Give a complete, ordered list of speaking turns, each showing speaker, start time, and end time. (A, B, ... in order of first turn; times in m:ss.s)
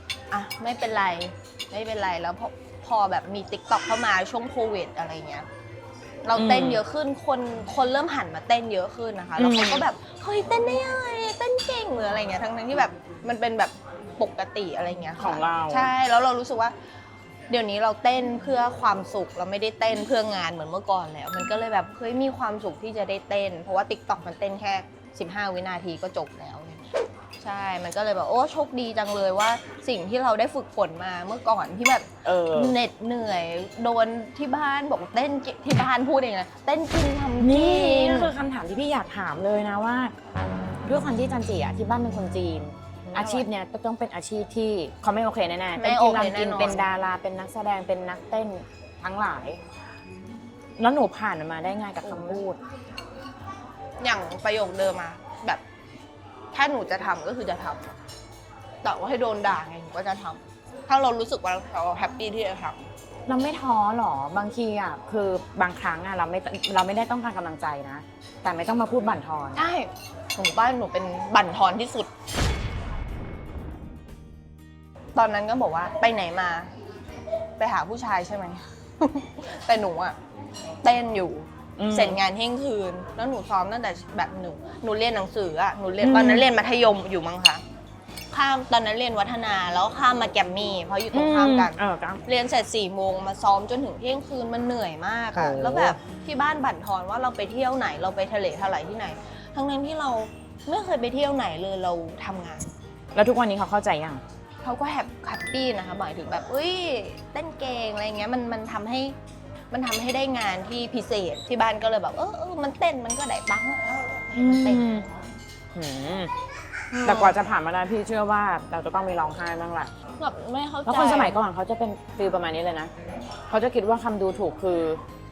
0:00.3-0:05.5 A
0:06.2-0:16.7 A
0:06.3-0:06.8 B
0:09.4-0:09.9 B
0:15.2-0:15.9 B
0:17.5-0:38.3 A
0:32.2-0:32.8 B
0:37.4-0:40.1 B
0:40.8-0:49.6 B
0:43.1-0:43.5 A
0:45.7-0:46.9 A
0:50.8-0:52.6 B
0:52.0-0:52.4 A
0:54.0-0:55.6 A
0:56.5-0:57.9 A
0:58.8-1:02.8 A
1:03.3-1:09.6 B
1:09.5-1:12.1 A
1:15.1-1:16.7 A
1:17.6-1:20.2 A
1:20.8-1:27.6 A
1:21.8-1:22.2 B
1:26.0-1:26.5 B
1:28.3-1:42.7 A
1:31.1-1:32.2 B
1:35.3-1:36.0 B
1:43.1-1:44.2 B
1:44.6-1:49.2 A
1:49.7-1:54.9 A
1:54.3-1:55.1 B
1:55.7-1:56.3 B
1:56.9-1:57.4 A
1:57.0-1:59.9 B
2:00.2-2:01.4 A
2:00.8-2:02.9 B
2:03.5-2:05.0 B